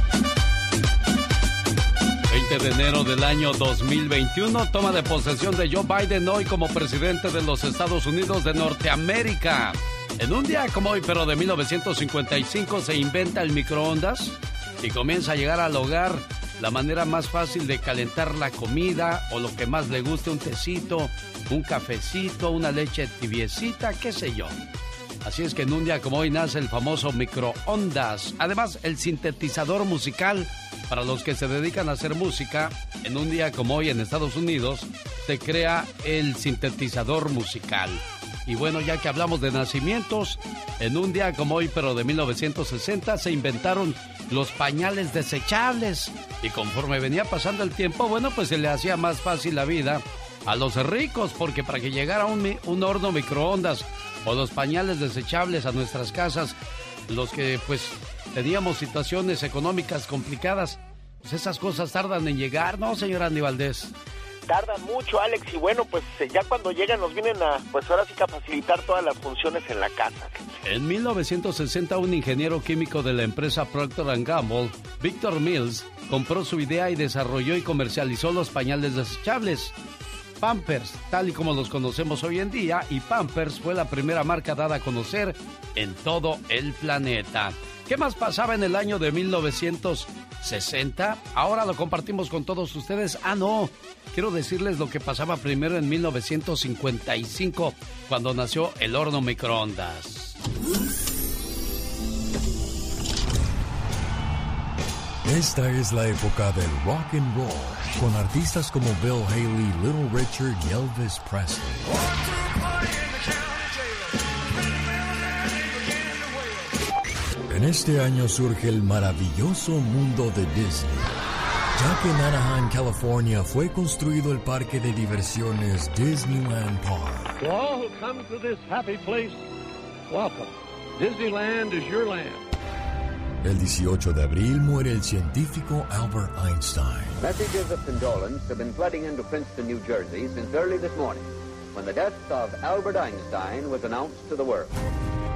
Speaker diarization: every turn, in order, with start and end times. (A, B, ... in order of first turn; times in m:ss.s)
0:02.3-0:24.6 A
0:25.2-0:56.6 A
0:57.1-1:03.9 A
1:04.4-1:10.4 B
1:10.6-1:19.7 A
1:20.4-1:40.4 A
1:45.2-1:51.9 C
1:52.8-1:53.7 D
1:57.5-2:01.1 C
2:01.8-2:07.4 C
2:07.4-2:09.5 E
2:10.1-2:12.4 E
2:13.4-2:17.2 C
2:17.2-2:24.7 D